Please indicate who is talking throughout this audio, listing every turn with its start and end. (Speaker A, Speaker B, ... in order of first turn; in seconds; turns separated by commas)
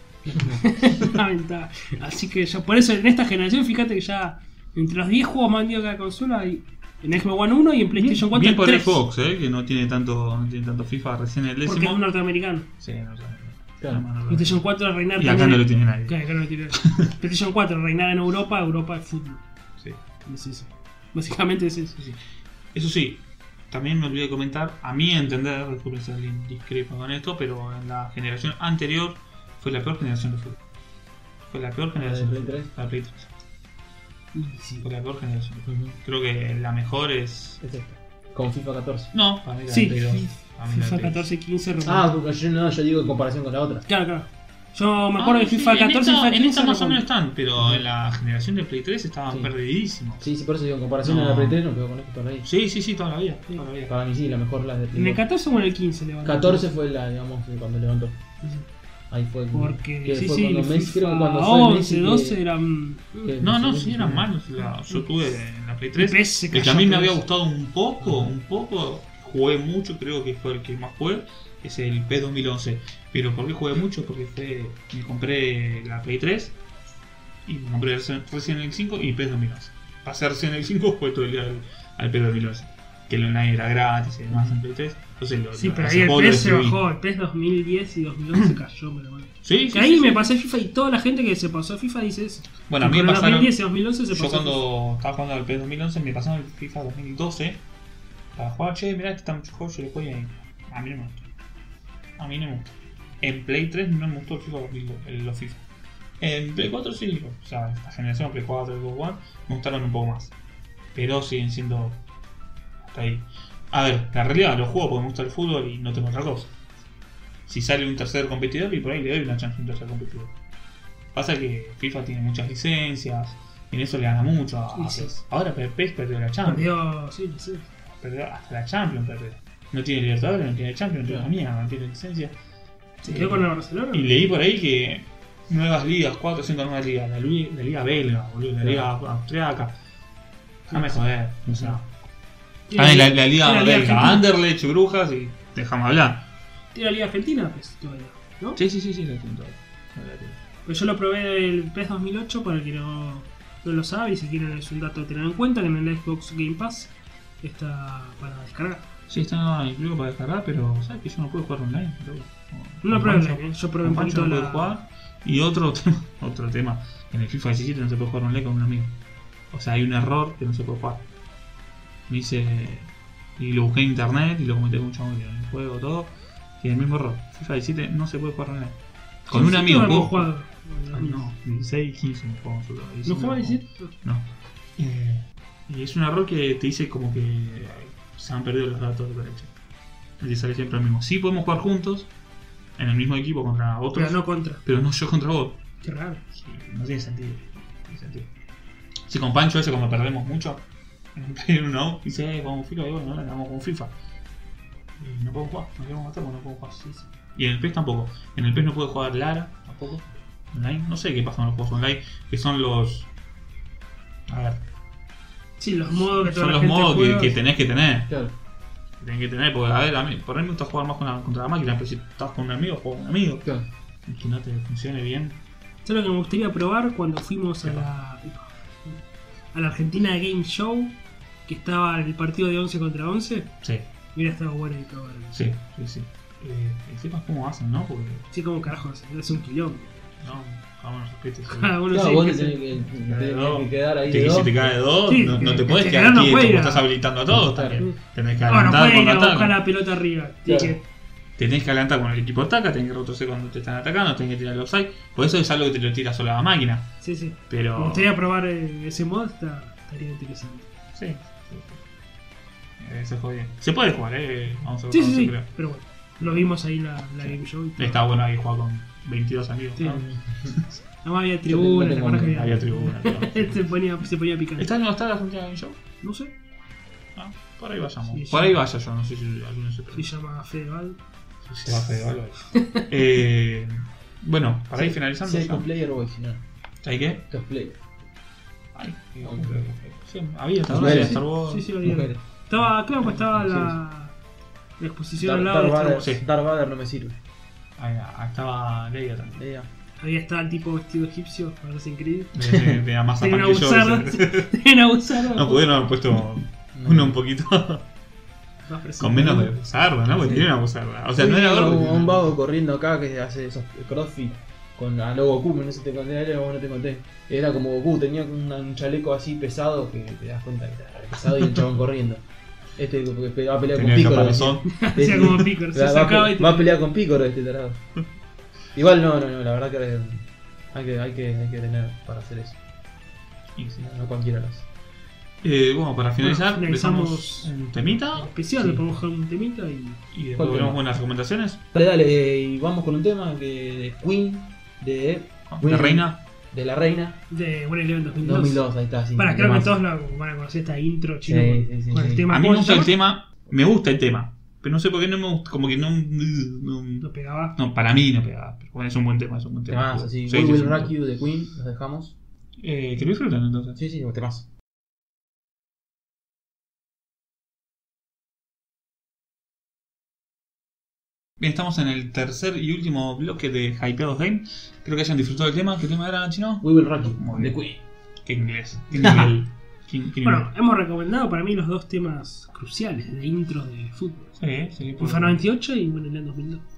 Speaker A: 0.2-9.0, Speaker B: 0.3-0.6, Speaker C: 0.9-1.2, Speaker C: 8.0-12.0, Speaker A: 11.7-12.7, Speaker C: 12.8-14.6, Speaker A: 14.3-19.4, Speaker C: 15.2-16.2, Speaker C: 16.7-17.1, Speaker A: 20.3-22.0, Speaker C: 22.0-22.2, Speaker C: 22.7-30.6, Speaker C: 31.5-33.3, Speaker B: 32.0-32.7, Speaker A: 34.3-34.9, Speaker C: 34.8-37.6, Speaker B: 35.7-36.0, Speaker B: 37.6-39.1, Speaker C: 39.1-41.3, Speaker A: 39.7-42.1, Speaker B: 41.9-43.9, Speaker A: 43.9-47.0, Speaker C: 45.2-50.3, Speaker B: 47.6-47.8, Speaker B: 50.2-52.5, Speaker C: 51.0-51.6, Speaker C: 52.5-53.9, Speaker B: 53.9-55.2, Speaker A: 55.0-56.6, Speaker B: 56.2-58.2, Speaker B: 59.1-62.4, Speaker A: 59.5-63.4, Speaker B: 63.2-64.3, Speaker C: 63.4-76.6, Speaker A: 66.0-67.2, Speaker B: 68.0-68.3, Speaker C: 77.5-86.8, Speaker A: 85.6-94.6, Speaker C: 89.4-90.2, Speaker C: 92.7-93.5, Speaker C: 94.1-97.6, Speaker C: 98.3-101.2, Speaker C: 102.2-105.7, Speaker C: 106.2-110.3, Speaker C: 110.9-112.0, Speaker C: 112.8-116.5, Speaker C: 117.5-120.3, Speaker C: 121.1-126.7, Speaker A: 124.7-125.2, Speaker A: 126.5-127.7, Speaker C: 128.0-132.4, Speaker A: 133.0-134.2, Speaker C: 133.0-139.8, Speaker B: 138.6-138.9, Speaker C: 140.7-141.9, Speaker A: 142.7-144.2, Speaker C: 142.8-146.3, Speaker A: 146.7-148.6, Speaker C: 148.6-150.4, Speaker A: 150.7-158.9, Speaker C: 159.1-168.9, Speaker A: 162.8-164.7, Speaker C: 169.5-171.1, Speaker C: 172.1-180.3, Speaker A: 179.3-181.3, Speaker C: 180.9-189.5, Speaker A: 183.1-183.9, Speaker C: 190.2-192.1, Speaker C: 192.8-195.6, Speaker A: 193.9-194.6, Speaker A: 195.8-196.2, Speaker C: 196.3-198.3, Speaker C: 199.1-203.9, Speaker C: 205.0-213.1, Speaker C: 214.3-214.6, Speaker A: 215.6-217.4, Speaker C: 216.1-218.1, Speaker C: 219.0-223.5, Speaker C: 224.1-225.4, Speaker A: 225.8-228.4, Speaker A: 229.5-233.5, Speaker C: 233.6-233.9, Speaker A: 234.1-235.4, Speaker C: 235.3-238.3, Speaker A: 238.3-240.1, Speaker C: 240.2-241.7, Speaker A: 241.5-242.7, Speaker B: 241.9-244.7, Speaker C: 243.0-249.6, Speaker A: 245.1-246.9, Speaker B: 247.3-247.8, Speaker A: 248.5-250.8, Speaker B: 250.5-250.8, Speaker C: 251.4-256.9, Speaker A: 257.0-260.7, Speaker C: 257.5-258.1, Speaker C: 260.9-261.8, Speaker C: 262.8-265.5, Speaker A: 264.9-268.0, Speaker C: 267.2-270.8, Speaker A: 269.8-270.0, Speaker B: 269.9-270.6, Speaker A: 271.0-274.7, Speaker B: 271.5-272.4, Speaker C: 272.3-273.7, Speaker C: 274.6-275.8, Speaker A: 276.0-276.3, Speaker C: 277.2-280.1, Speaker A: 278.1-278.6, Speaker A: 279.9-281.0, Speaker C: 281.5-285.7, Speaker A: 282.5-282.9, Speaker B: 284.8-286.4, Speaker C: 286.8-287.3, Speaker B: 287.3-287.8, Speaker C: 288.7-291.7, Speaker B: 289.2-289.6, Speaker B: 290.7-291.2, Speaker A: 290.8-294.1, Speaker B: 291.8-292.2, Speaker B: 293.0-293.8, Speaker A: 294.8-296.1, Speaker B: 295.2-297.2, Speaker C: 296.0-296.2, Speaker C: 297.8-299.4, Speaker B: 299.3-299.7, Speaker A: 300.0-305.7, Speaker C: 302.4-304.5, Speaker C: 305.1-307.9, Speaker B: 306.7-307.2, Speaker A: 308.7-309.5, Speaker C: 309.0-312.3, Speaker B: 310.2-310.5, Speaker B: 311.1-322.2, Speaker B: 322.8-327.8, Speaker C: 323.7-324.8, Speaker A: 324.7-326.7, Speaker B: 328.7-332.6, Speaker C: 333.6-333.8, Speaker B: 333.8-334.7, Speaker C: 335.4-338.3, Speaker A: 336.2-337.5, Speaker A: 338.1-340.0, Speaker C: 340.1-341.6, Speaker B: 340.4-340.8, Speaker B: 341.7-347.2, Speaker C: 345.5-346.2, Speaker A: 347.3-352.9, Speaker B: 348.2-349.8, Speaker B: 351.3-352.3, Speaker C: 352.3-360.9, Speaker A: 357.0-357.6, Speaker B: 359.7-362.2, Speaker C: 362.6-363.8, Speaker B: 363.8-364.5, Speaker C: 371.4-377.6, Speaker B: 376.6-377.8, Speaker C: 378.2-380.5, Speaker B: 379.0-379.3, Speaker A: 380.2-384.4, Speaker C: 384.4-385.4, Speaker A: 385.0-386.6